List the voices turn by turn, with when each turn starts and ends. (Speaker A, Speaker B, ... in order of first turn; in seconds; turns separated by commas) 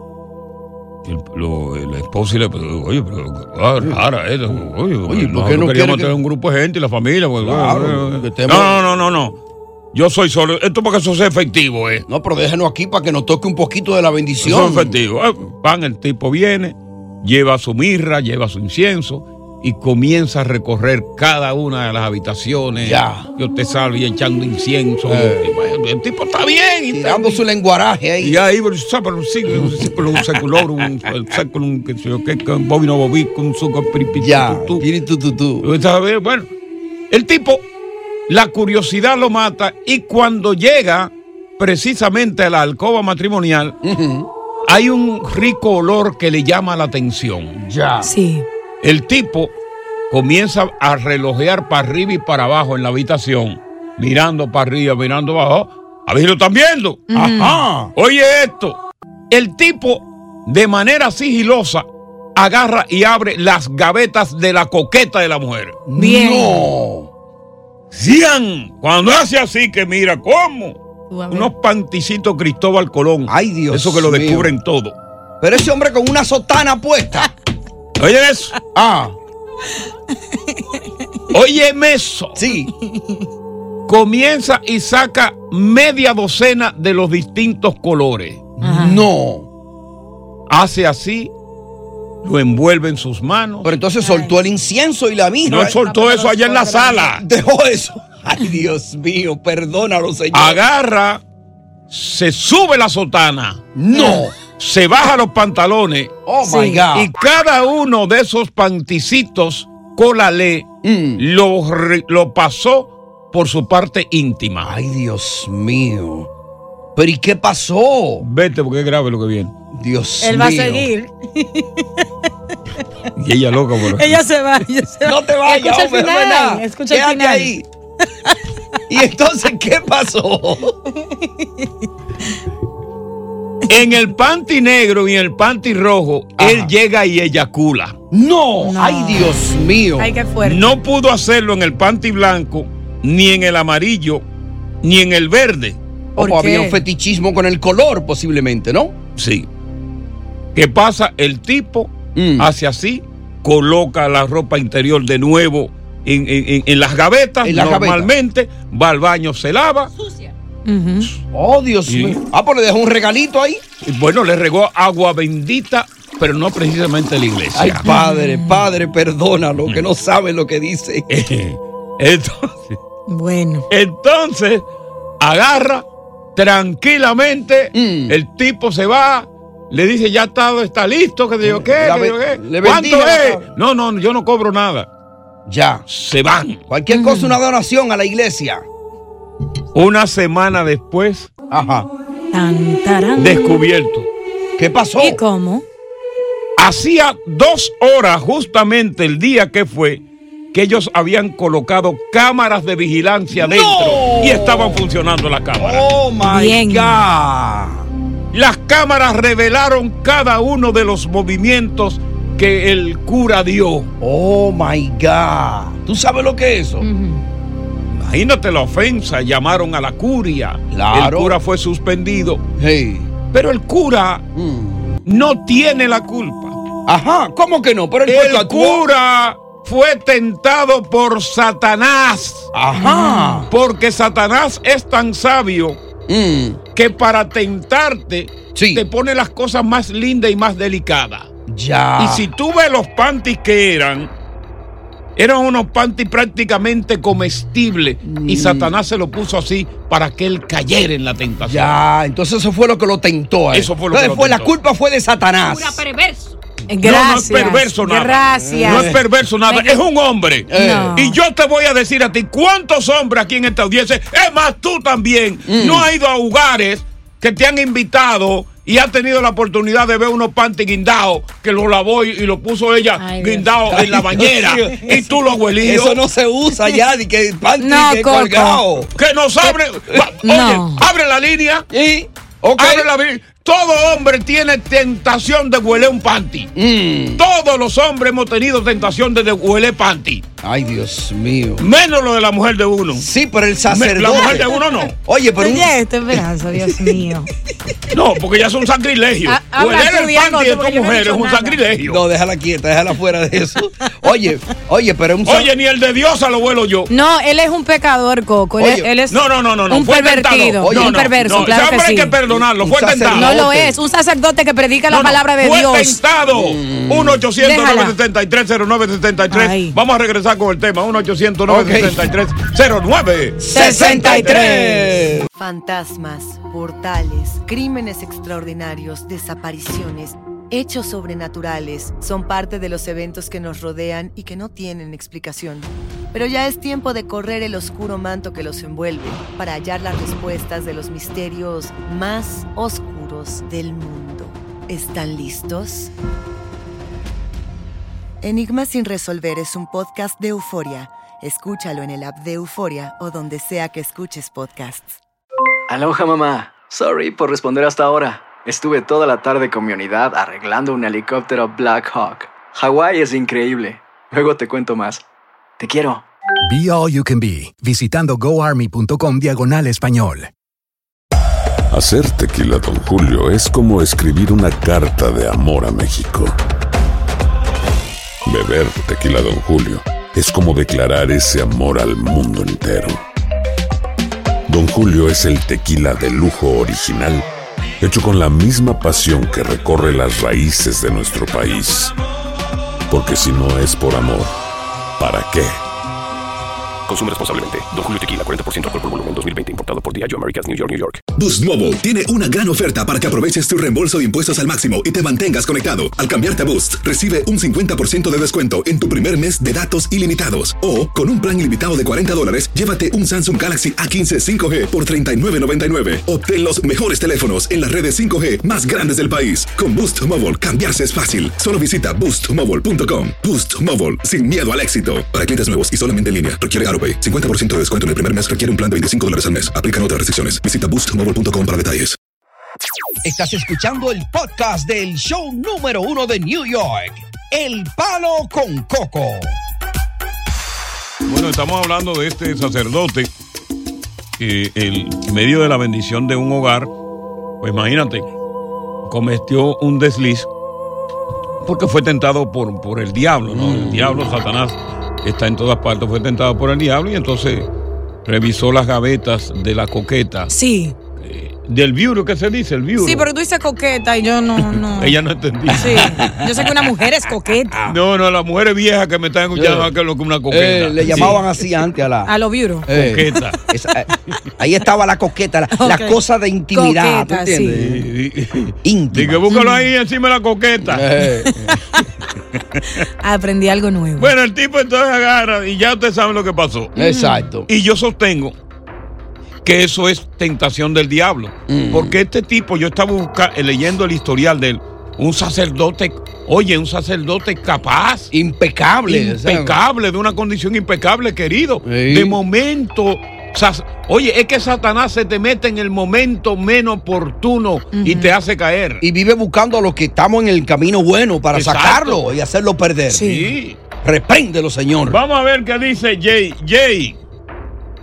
Speaker A: 1.0-9.4, Speaker B: 5.0-6.2, Speaker B: 7.4-8.8, Speaker A: 9.9-12.0, Speaker B: 12.1-15.0, Speaker A: 14.4-27.4, Speaker B: 22.8-23.3, Speaker B: 25.0-25.5, Speaker B: 26.9-28.4, Speaker A: 28.2-34.8, Speaker B: 29.5-30.6, Speaker B: 34.2-35.7, Speaker A: 35.6-36.5, Speaker A: 37.1-37.6, Speaker A: 38.3-43.8, Speaker B: 43.8-44.3, Speaker A: 44.6-47.6, Speaker B: 47.6-48.1, Speaker C: 48.0-48.4, Speaker A: 48.8-49.5, Speaker A: 50.1-57.0, Speaker C: 57.1-57.6, Speaker B: 57.1-57.9, Speaker A: 57.9-58.8, Speaker A: 59.3-65.8, Speaker B: 65.9-67.1, Speaker C: 66.0-66.7, Speaker A: 67.9-75.0, Speaker C: 71.1-71.5, Speaker B: 73.2-74.5, Speaker B: 75.4-77.3, Speaker A: 78.0-78.5, Speaker B: 78.7-79.2, Speaker C: 80.3-80.8, Speaker A: 81.3-82.5, Speaker B: 82.3-82.7, Speaker C: 82.8-83.2, Speaker A: 83.9-88.5, Speaker B: 88.6-89.5, Speaker C: 88.6-89.0, Speaker A: 90.5-91.3, Speaker A: 92.2-93.7, Speaker B: 93.6-95.8, Speaker C: 94.0-94.4, Speaker A: 95.5-97.2, Speaker C: 95.6-97.1, Speaker B: 97.1-100.6, Speaker A: 100.3-101.2, Speaker A: 101.9-103.6, Speaker B: 103.7-104.3, Speaker C: 103.9-104.3, Speaker A: 104.6-106.1, Speaker B: 106.2-107.1, Speaker C: 106.4-106.9, Speaker A: 106.9-114.7, Speaker B: 110.8-111.2, Speaker B: 114.6-116.3, Speaker B: 116.9-118.2, Speaker A: 118.2-119.5, Speaker B: 119.7-120.9, Speaker C: 120.2-122.0, Speaker A: 123.2-124.2, Speaker C: 123.9-128.3, Speaker B: 125.0-127.7, Speaker B: 128.9-130.8, Speaker C: 130.9-131.8, Speaker A: 133.7-137.9, Speaker B: 136.4-136.7, Speaker B: 138.1-140.2, Speaker C: 138.6-139.4, Speaker C: 140.0-140.7, Speaker A: 140.4-144.2, Speaker A: 144.8-145.8, Speaker B: 146.2-148.9, Speaker C: 146.2-146.8, Speaker A: 149.2-149.5, Speaker A: 150.5-159.9, Speaker B: 152.1-152.5, Speaker B: 157.4-158.1, Speaker C: 160.7-161.1, Speaker B: 161.3-163.6, Speaker A: 161.9-162.2, Speaker A: 163.8-167.8, Speaker B: 167.5-171.1, Speaker C: 167.8-168.7, Speaker A: 171.1-172.8, Speaker C: 173.1-173.6, Speaker A: 173.7-174.7, Speaker A: 175.2-184.9, Speaker B: 177.7-178.2, Speaker B: 181.4-183.4, Speaker B: 185.5-185.8, Speaker A: 185.9-186.6, Speaker B: 186.7-188.7, Speaker C: 186.9-187.3, Speaker A: 189.7-191.3, Speaker B: 191.5-191.9, Speaker C: 192.3-193.6, Speaker A: 193.2-194.1, Speaker B: 194.6-195.2, Speaker C: 195.0-195.6, Speaker A: 196.6-205.9, Speaker B: 203.3-204.8, Speaker B: 205.6-207.9, Speaker C: 206.2-207.0, Speaker A: 208.3-213.9, Speaker B: 214.0-216.9, Speaker C: 216.8-217.2, Speaker A: 217.9-222.4, Speaker B: 220.7-221.4, Speaker B: 222.6-223.1, Speaker A: 223.3-224.2, Speaker B: 224.3-225.0, Speaker A: 225.1-226.6, Speaker B: 226.9-228.8, Speaker A: 228.0-232.5, Speaker B: 232.5-233.5, Speaker C: 232.8-233.4, Speaker A: 233.5-235.8, Speaker B: 236.1-236.6, Speaker A: 236.7-241.3, Speaker B: 238.5-238.8, Speaker B: 241.5-242.3, Speaker A: 242.0-244.1, Speaker A: 245.2-251.7, Speaker B: 248.0-248.7, Speaker B: 251.4-255.8, Speaker A: 253.5-254.5, Speaker C: 255.5-259.8, Speaker A: 256.8-276.0, Speaker B: 258.4-259.0, Speaker B: 260.5-260.9, Speaker C: 260.5-261.2, Speaker B: 265.4-265.9, Speaker C: 273.0-273.6, Speaker B: 273.7-275.1, Speaker B: 275.6-278.9, Speaker C: 277.6-278.6, Speaker A: 278.9-281.7, Speaker C: 280.2-280.8, Speaker B: 281.7-282.9, Speaker A: 282.6-286.5, Speaker B: 286.6-287.2, Speaker A: 287.1-290.2, Speaker B: 290.4-291.7, Speaker A: 291.6-293.1, Speaker B: 292.9-295.7, Speaker A: 293.7-294.9, Speaker C: 295.4-297.3, Speaker B: 296.6-296.9, Speaker A: 297.9-302.0, Speaker C: 299.2-301.6, Speaker B: 301.8-305.5, Speaker A: 305.2-306.9, Speaker C: 306.9-312.2, Speaker B: 308.6-308.9, Speaker A: 309.1-313.5, Speaker B: 310.6-311.4, Speaker B: 312.3-313.8, Speaker C: 313.1-316.0, Speaker A: 314.9-324.4, Speaker B: 316.3-317.2, Speaker C: 317.4-317.9, Speaker C: 319.3-319.8, Speaker B: 321.5-322.1, Speaker B: 323.4-325.3, Speaker C: 323.5-324.9, Speaker D: 325.3-345.9, Speaker D: 348.2-355.0, Speaker E: 355.7-365.0, Speaker E: 365.6-366.0, Speaker F: 366.4-370.3, Speaker G: 371.7-376.4, Speaker G: 378.2-383.0, Speaker G: 384.5-387.2, Speaker G: 387.8-391.9, Speaker G: 392.9-394.3, Speaker G: 395.0-395.6, Speaker H: 396.9-401.0, Speaker I: 401.1-432.0, Speaker B: 433.0-439.4, Speaker A: 441.0-443.1, Speaker A: 444.2-446.7, Speaker A: 447.4-448.1, Speaker A: 448.9-450.3, Speaker A: 451.4-457.5, Speaker B: 453.3-454.1, Speaker A: 458.0-460.3, Speaker C: 460.3-460.7, Speaker A: 461.0-463.1, Speaker C: 462.8-464.9, Speaker A: 464.4-466.1, Speaker C: 465.5-467.6, Speaker B: 465.6-466.3, Speaker A: 467.6-471.2, Speaker B: 469.3-469.7, Speaker B: 470.3-472.1, Speaker C: 472.1-472.7, Speaker B: 472.6-477.9, Speaker A: 472.7-473.4, Speaker C: 475.5-476.0, Speaker C: 476.5-477.7, Speaker A: 477.6-480.9, Speaker B: 478.6-479.3, Speaker C: 479.3-479.7, Speaker B: 480.6-481.6, Speaker A: 482.3-482.8, Speaker C: 483.0-484.1, Speaker A: 484.0-486.7, Speaker C: 486.8-487.3, Speaker B: 486.8-487.5, Speaker A: 487.5-488.3, Speaker A: 489.4-498.1, Speaker B: 491.5-491.9, Speaker B: 498.1-499.6, Speaker A: 498.9-508.8, Speaker B: 501.6-502.2, Speaker C: 507.7-508.1, Speaker B: 508.8-513.2, Speaker A: 511.3-512.0, Speaker C: 512.9-513.3, Speaker A: 513.0-513.6, Speaker B: 513.8-515.0, Speaker A: 514.9-517.0